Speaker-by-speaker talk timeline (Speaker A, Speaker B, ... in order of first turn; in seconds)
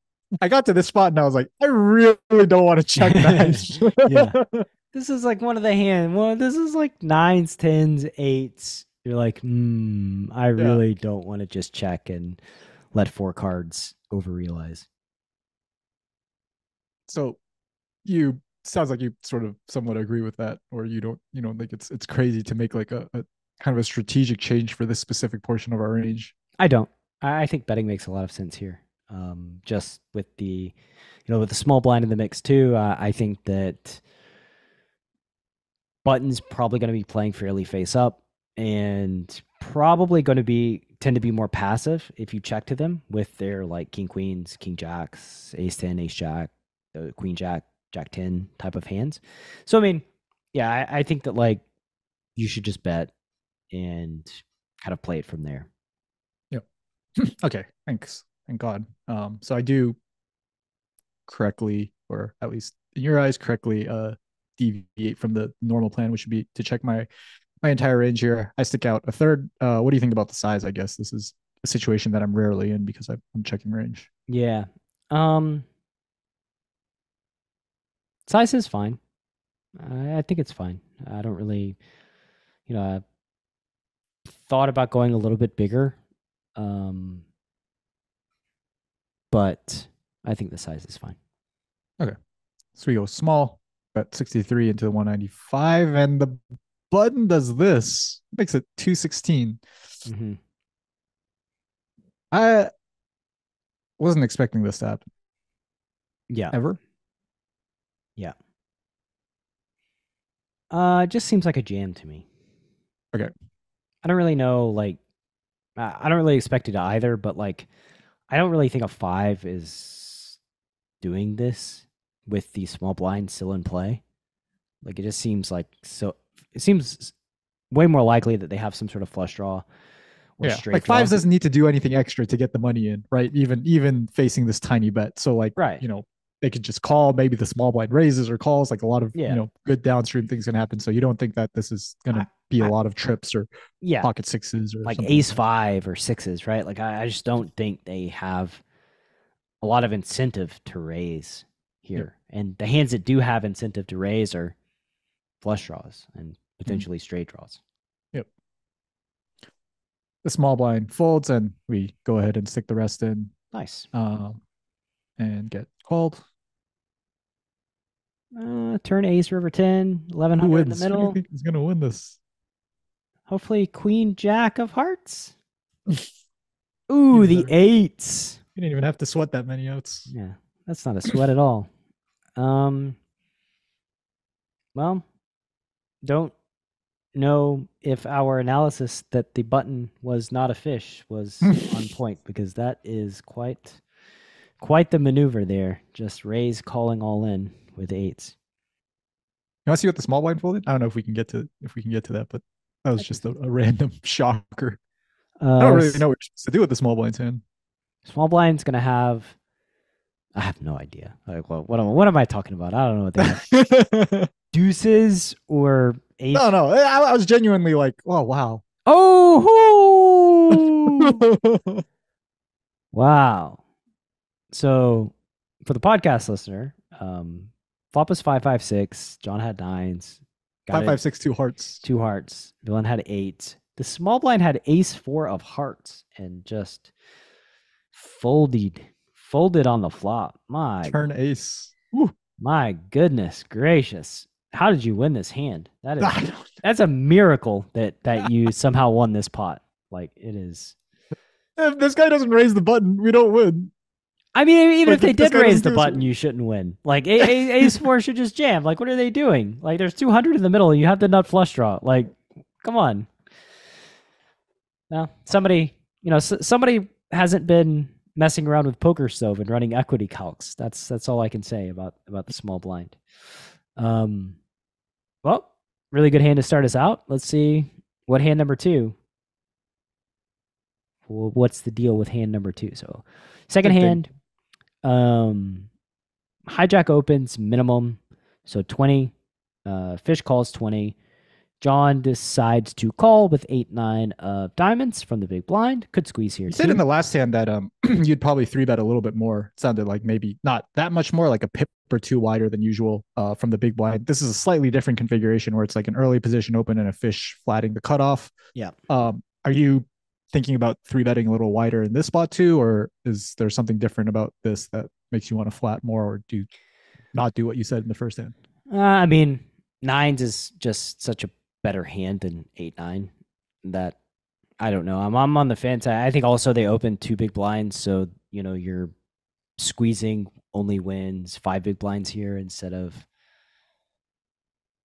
Speaker A: 0.4-4.7, 17.1-17.4, 18.0-26.3, 57.2-60.0, 61.3-67.1, 67.6-74.1, 92.8-96.4, 96.9-99.6, 102.3-102.7, 104.0-105.0, 106.5-106.8, 130.4-143.5, 144.0-145.4, 160.2-163.3, 163.9-164.4, 165.2-166.2, 170.4-172.2, 177.1-177.5, 178.6-180.1, 191.4-191.7, 199.7-204.8, 205.6-207.4, 213.2-214.3, 216.3-218.6, 220.5-221.8, 230.7-231.8, 240.8-242.1, 246.0-246.6, 251.6-253.7, 254.8-256.1, 283.6-284.0, 296.5-308.3, 308.9-316.5, 317.1-318.3
Speaker B: 3.0-4.4, 4.9-12.4, 12.9-14.8, 26.6-30.7, 31.3-34.0, 36.0-51.6, 52.4-53.1, 53.7-55.7, 74.3-75.6, 78.2-79.0, 79.8-81.8, 82.7-83.0, 84.3-86.0, 86.5-87.2, 89.3-91.2, 100.1-100.4, 106.3-106.5, 110.7-112.2, 114.0-115.0, 115.8-117.7, 118.3-120.4, 121.0-124.0, 124.8-127.1, 127.7-129.6, 130.4-131.2, 135.6-135.8, 139.1-139.4, 142.1-142.7, 143.8-144.1, 144.8-148.6, 149.6-154.5, 155.4-157.6, 163.5-163.9, 168.3-171.2, 173.3-175.3, 176.9-178.4, 180.1-181.7, 182.4-183.0, 184.7-185.0, 186.0-186.3, 187.1-193.8, 194.6-198.3, 205.4-206.0, 208.0-209.3, 210.3-213.4, 214.5-216.5, 218.8-221.2, 222.9-223.6, 224.5-225.1, 225.6-231.0, 231.8-236.9, 237.9-241.0, 242.4-250.8, 254.3-263.1, 264.9-273.0, 273.8-274.4, 275.2-278.9, 281.1-284.1, 284.8-285.7, 286.5-289.1, 289.6-290.9, 291.6-296.8, 318.7-323.1, 323.6-323.9, 324.6-328.9, 329.6-333.1